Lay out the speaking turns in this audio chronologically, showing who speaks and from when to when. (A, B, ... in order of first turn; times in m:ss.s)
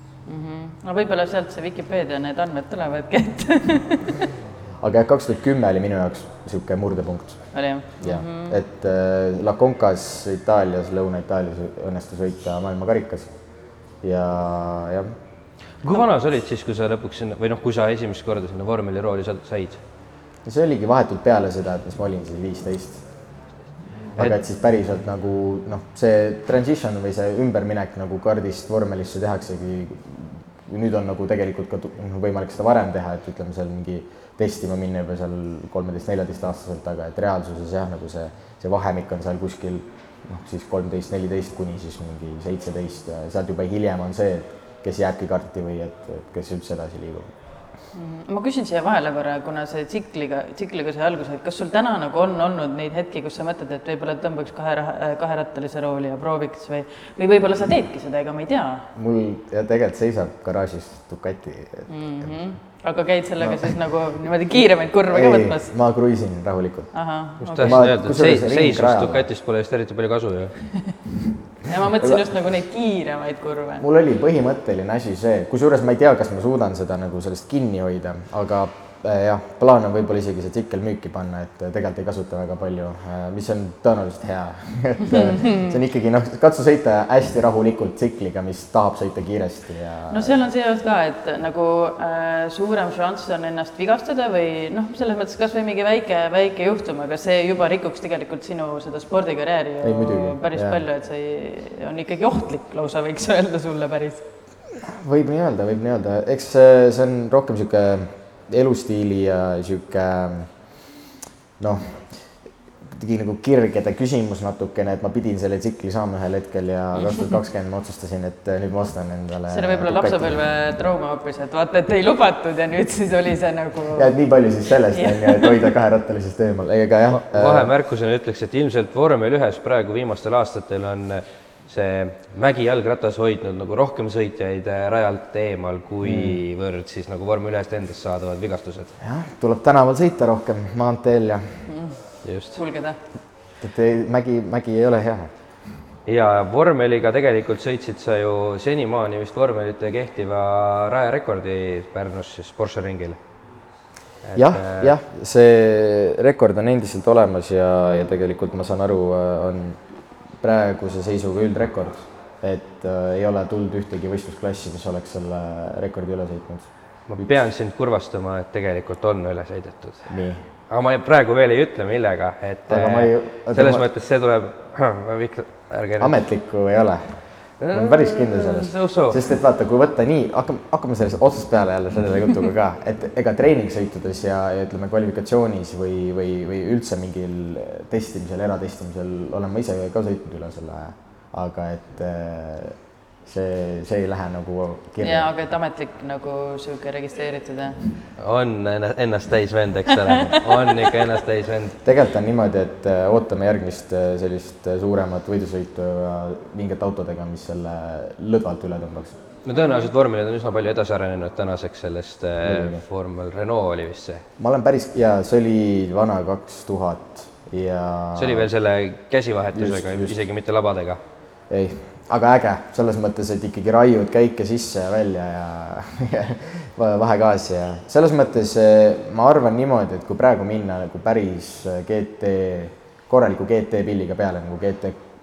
0:00.2-0:04.2 A
0:04.8-0:13.3 B
0:07.5-0:08.6 A
0:14.0-0:15.1 B
0:15.8-0:19.8 C
0:20.4-0:23.0 B
0:24.2-0:47.3 B
0:47.9-0:58.9 A
0:58.9-1:02.5 B
1:01.9-1:05.7 A
1:03.4-1:03.8 B
1:05.1-1:06.9 B
1:06.9-1:07.8 A
1:07.4-1:10.6 C
1:07.6-1:09.3 B
1:11.6-1:13.8 A
1:13.8-1:30.3 B
1:30.1-1:44.2 A
1:39.8-1:40.8 B
1:44.8-1:50.5 B
1:51.6-2:00.4 B
1:59.5-2:04.1 A
2:03.9-2:07.7 B
2:04.9-2:05.6 A
2:07.1-2:18.9 C
2:16.0-2:16.4 B
2:19.0-2:21.7 B
2:21.7-2:22.0 A
2:22.2-2:22.6 C
2:22.5-2:23.0 A
2:23.6-2:25.3 B
2:26.0-2:33.2 C
2:34.2-2:34.9 C
2:34.3-2:39.9 B
2:40.4-2:47.3 B
2:47.1-2:50.1 C
2:50.1-2:50.5 B
2:50.7-2:56.1 C
2:52.7-2:53.8 B
2:56.0-3:15.3 B
2:57.6-2:59.2 C
3:15.0-3:17.8 A
3:18.2-3:21.8 C
3:21.8-3:29.2 B
3:29.4-3:34.2 C
3:32.4-3:32.8 B
3:34.4-3:38.5 B
3:38.2-3:41.0 C
3:39.5-3:40.2 B
3:41.5-3:55.0 B